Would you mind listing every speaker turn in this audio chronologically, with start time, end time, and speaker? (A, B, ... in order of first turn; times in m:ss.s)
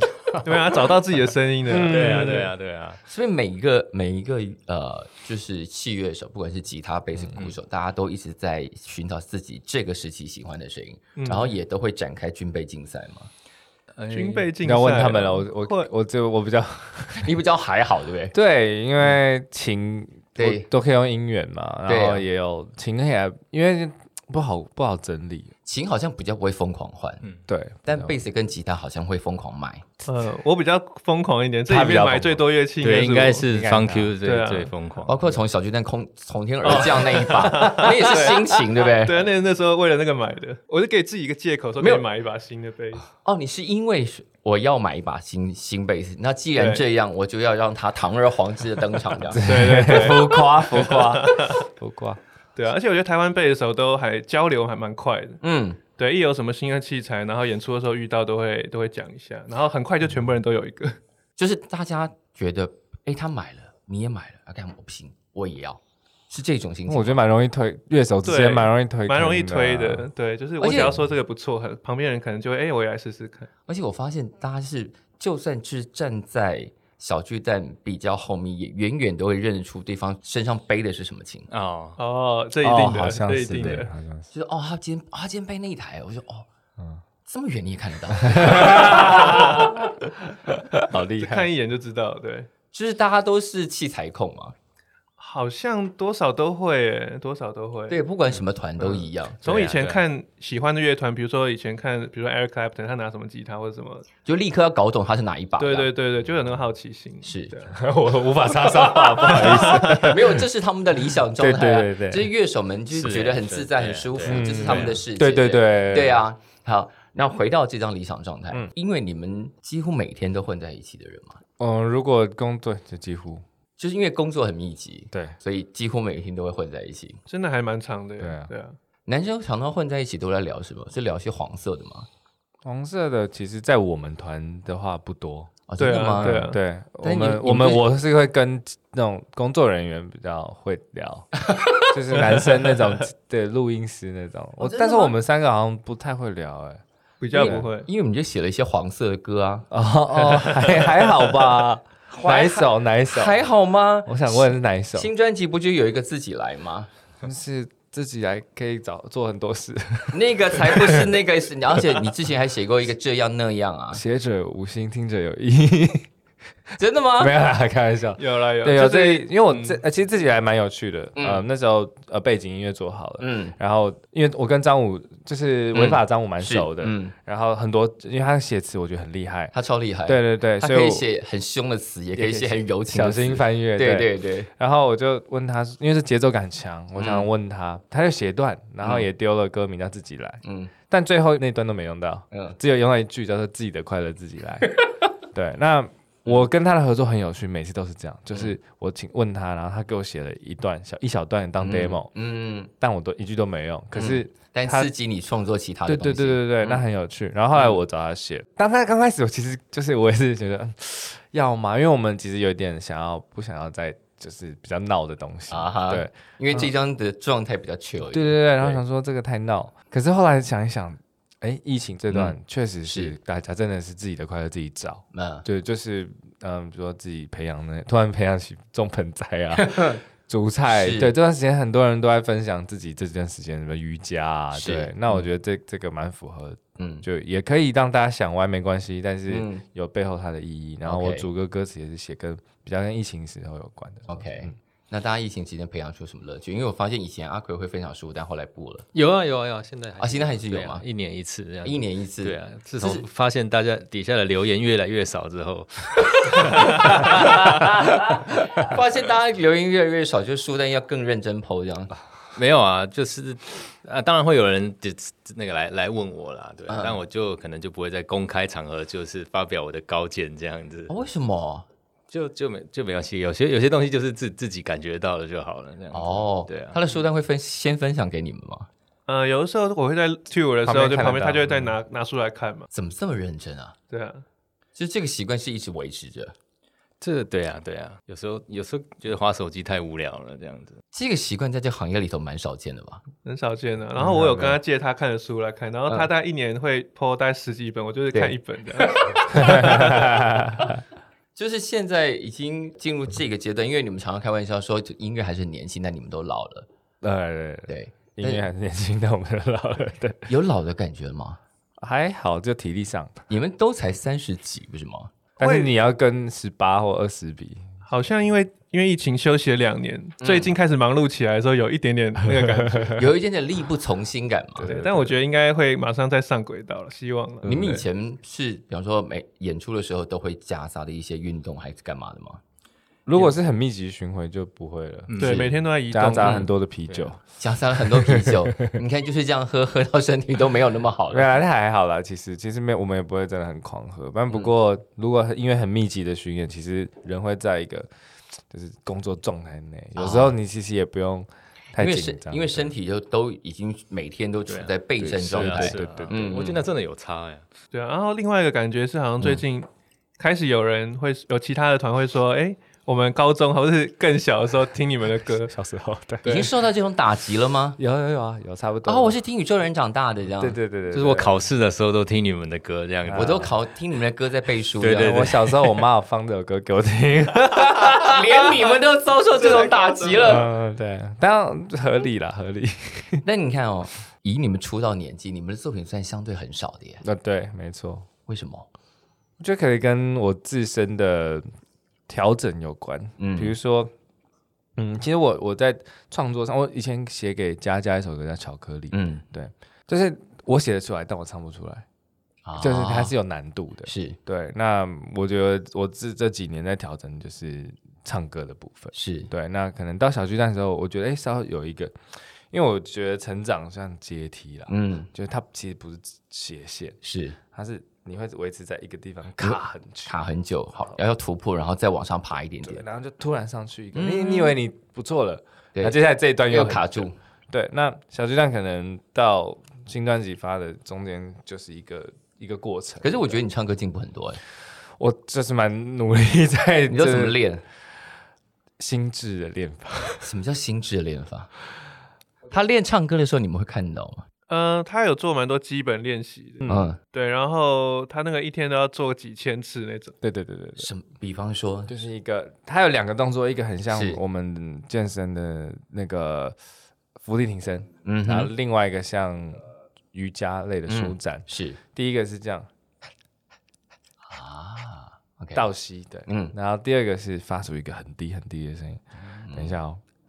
0:00.3-0:00.9 A
0:00.4-0:02.5 B
0:01.6-0:02.5 C
0:01.8-0:03.0 A
0:03.0-0:13.3 D
0:11.2-0:11.5 B
0:13.9-0:14.5 A
0:14.1-0:15.9 B
0:14.6-0:17.3 C
0:17.2-0:18.3 D
0:18.3-0:25.5 C
0:20.4-0:20.7 D
0:21.9-0:22.2 D
0:25.6-0:27.2 D
0:27.5-0:28.2 C
0:27.8-0:29.8 D
0:30.0-0:33.5 B
0:31.7-0:32.4 C
0:32.8-0:35.2 A
0:33.5-0:34.1 C
0:34.2-0:34.7 B
0:35.0-0:39.2 D
0:36.6-0:43.0 B
0:41.8-0:42.0 D
0:43.2-0:49.4 D
0:46.6-0:46.8 B
0:49.3-0:52.2 C
0:49.4-0:51.6 B
0:52.6-0:55.4 B
0:55.4-0:55.8 D
0:56.0-1:01.0 B
1:01.4-1:07.2 D
1:06.9-1:10.1 C
1:08.2-1:13.5 B
1:10.6-1:11.0 D
1:13.7-1:21.5 D
1:21.5-1:22.0 A
1:22.0-1:23.9 B
1:22.6-1:24.3 C
1:24.3-1:26.4 D
1:27.2-1:29.4 D
1:28.2-1:29.9 C
1:29.0-1:29.7 B
1:30.5-1:31.5 C
1:31.2-1:32.5 B
1:32.7-1:34.5 D
1:35.2-1:38.0 B
1:37.9-1:39.4 D
1:38.8-1:44.1 B
1:39.4-1:40.0 A
1:44.2-1:45.9 D
1:45.6-1:47.8 B
1:47.2-1:47.5 D
1:47.7-1:50.4 C
1:49.1-1:50.2 B
1:49.7-2:01.4 D
1:51.3-1:52.3 C
1:52.9-1:55.0 A
1:54.2-1:56.2 C
2:01.6-2:03.4 C
2:03.8-2:07.2 D
2:07.3-2:08.8 B
2:08.2-2:08.5 C
2:09.1-2:12.1 D
2:12.6-2:15.5 C
2:15.7-2:16.5 D
2:15.8-2:16.6 B
2:16.2-2:26.8 C
2:17.0-2:17.8 D
2:22.2-2:23.0 B
2:24.6-2:25.1 D
2:27.2-2:27.9 B
2:27.3-2:29.6 D
2:27.4-2:27.6 C
2:29.7-2:33.4 C
2:30.2-2:31.4 B
2:32.1-2:36.9 D
2:34.0-2:35.1 C
2:37.2-2:41.1 C
2:40.1-2:44.0 D
2:43.9-2:46.1 C
2:46.8-2:47.3 D
2:47.2-2:59.5 C
2:48.2-2:49.8 B
2:51.2-2:51.4 D
2:53.2-2:53.6 D
2:55.7-2:57.1 D
2:59.5-3:04.5 D
3:00.0-3:01.0 C
3:02.2-3:14.7 C
3:07.0-3:07.3 D
3:08.8-3:09.1 D
3:10.4-3:10.7 D
3:12.3-3:12.6 D
3:15.3-3:22.1 C
3:21.6-3:22.7 D
3:22.8-3:24.9 C
3:23.9-3:26.8 D
3:25.8-3:36.7 C
3:35.5-3:38.8 D
3:38.1-4:04.5 C
3:42.1-3:43.1 D
3:45.1-3:45.4 D
3:49.5-3:50.0 D
3:50.7-3:51.1 D
3:54.5-3:55.2 D
3:56.8-3:57.0 D
3:59.3-3:59.6 D
4:00.8-4:01.2 D
4:04.1-4:08.9 D
4:08.9-4:17.6 A
4:10.0-4:10.8 D
4:11.6-4:13.0 D
4:16.4-4:21.9 D
4:22.3-4:30.9 A
4:26.7-4:27.0 D
4:30.9-4:31.6 D
4:32.1-4:36.8 A
4:35.9-4:38.7 D
4:39.1-4:42.7 B
4:40.6-4:41.8 C
4:42.7-4:43.7 D
4:43.9-4:44.2 B
4:44.8-4:46.3 D
4:47.0-4:50.8 A
4:50.9-4:53.0 D
4:53.2-5:00.2 B
4:54.0-4:54.6 C
4:58.9-4:59.2 D
4:59.3-5:00.8 C
5:01.4-5:06.7 D
5:07.0-5:10.3 C
5:07.7-5:08.4 D
5:10.3-5:11.4 D
5:11.8-5:13.2 C
5:13.3-5:15.1 D
5:15.4-5:17.6 C
5:15.4-5:15.7 B
5:17.8-5:23.1 B
5:20.2-5:20.5 D
5:22.3-5:22.9 C
5:22.9-5:24.7 D
5:24.6-5:25.2 C
5:24.6-5:27.8 B
5:27.4-5:32.4 D
5:33.0-5:37.2 C
5:35.1-5:35.5 A
5:35.2-5:36.5 B
5:36.2-5:36.5 D
5:37.4-5:41.4 D
5:37.9-5:38.7 C
5:41.1-5:47.9 C
5:48.5-5:52.7 C
5:50.0-5:50.3 D
5:51.8-5:56.6 D
5:54.5-5:54.7 A
5:55.0-5:56.2 C
5:55.3-5:57.4 A
5:57.7-5:59.7 B
6:00.2-6:05.5 B
6:05.5-6:06.4 C
6:06.2-6:06.5 B
6:06.2-6:07.8 D
6:07.8-6:09.2 C
6:08.8-6:10.6 D
6:10.4-6:11.4 C
6:10.9-6:13.5 A
6:13.0-6:13.5 C
6:13.2-6:15.4 D
6:14.8-6:15.8 A
6:15.0-6:18.2 C
6:17.8-6:20.5 D
6:19.4-6:20.3 B
6:20.2-6:23.2 C
6:23.2-6:27.0 D
6:27.0-6:28.1 C
6:28.3-6:28.7 D
6:29.4-6:31.5 C
6:32.1-6:33.9 C
6:33.2-6:33.5 D
6:34.8-6:41.8 C
6:38.9-6:39.2 D
6:42.4-6:43.1 D
6:42.6-6:57.0 C
6:43.9-6:44.2 D
6:48.9-6:49.3 D
6:54.7-6:55.1 D
6:57.0-6:57.4 D
6:57.5-7:00.2 C
6:59.4-7:02.8 D
7:02.6-7:13.4 C
7:03.9-7:04.6 D
7:06.5-7:07.2 D
7:13.0-7:14.4 D
7:15.0-7:17.4 C
7:16.9-7:17.6 D
7:18.8-7:20.3 C
7:20.2-7:21.5 D
7:22.5-7:24.2 D
7:24.5-7:30.2 B
7:26.6-7:26.9 C
7:26.7-7:27.0 D
7:30.2-7:30.9 C
7:30.8-7:31.9 D
7:31.9-7:36.6 C
7:33.9-7:34.2 D
7:37.2-7:42.7 C
7:38.0-7:38.5 D
7:40.9-7:41.8 D
7:44.3-7:45.6 D
7:45.5-7:50.0 C
7:46.2-7:46.5 D
7:49.2-7:49.8 D